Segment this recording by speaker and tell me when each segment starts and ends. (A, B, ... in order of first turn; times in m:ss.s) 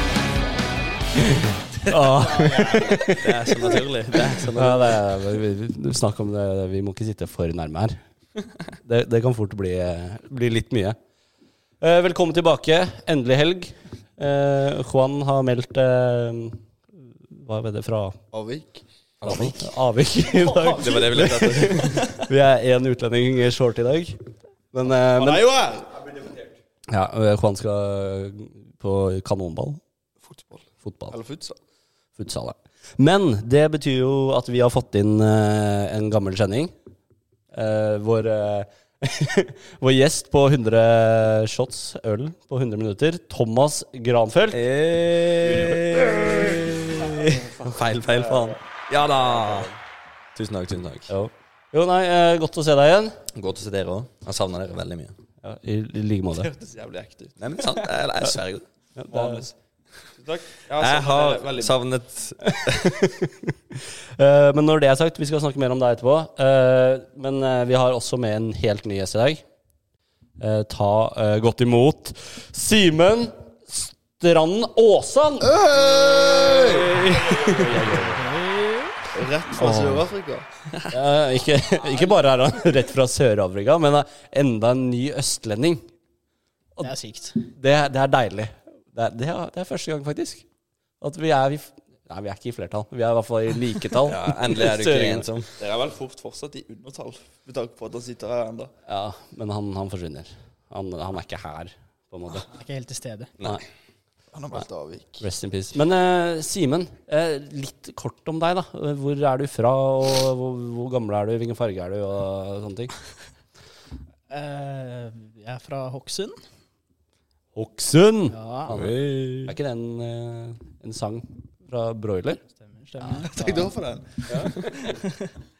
0:01.4-0:03.3 A
0:01.9-0:03.2 B
0:02.8-0:05.4 C
0:04.5-0:08.0 A
0:08.8-0:11.0 A
0:11.8-0:18.2 A
0:18.3-0:18.8 D
0:19.2-0:19.7 C
0:19.2-0:25.5 A
0:20.3-0:21.0 B
0:20.8-0:22.1 C
0:21.8-0:22.2 D
0:25.0-0:26.4 D
0:26.9-0:29.8 A
0:30.2-0:31.6 D
0:30.8-0:31.2 A
0:32.2-0:36.7 A
0:37.5-0:44.6 A
0:44.5-0:49.8 C
0:45.5-0:46.4 D
0:50.4-0:51.1 C
0:51.1-0:53.2 A
0:53.3-0:55.2 C
0:55.4-0:56.5 A
0:56.3-0:57.7 D
0:57.4-0:58.7 C
0:59.0-0:59.5 A
0:59.1-0:59.5 D
1:00.2-1:01.8 D
1:00.8-1:03.0 C
1:02.4-1:09.4 A
1:10.4-1:15.6 A
1:15.4-1:17.8 D
1:16.6-1:18.4 A
1:17.7-1:19.0 B
1:19.1-1:20.5 D
1:19.6-1:20.1 A
1:20.9-1:25.9 A
1:26.8-1:27.4 B
1:27.4-1:30.4 A
1:31.0-1:35.3 A
1:34.0-1:35.5 C
1:35.6-1:38.7 D
1:38.9-1:42.5 A
1:42.5-1:43.3 B
1:43.4-1:43.6 C
1:44.3-1:45.2 D
1:45.2-1:52.9 A
1:54.3-1:56.4 B
1:57.6-2:02.4 A
1:58.3-1:58.8 B
1:58.7-1:59.5 C
2:02.5-2:03.8 B
2:03.0-2:05.0 D
2:04.3-2:04.6 A
2:04.5-2:05.4 B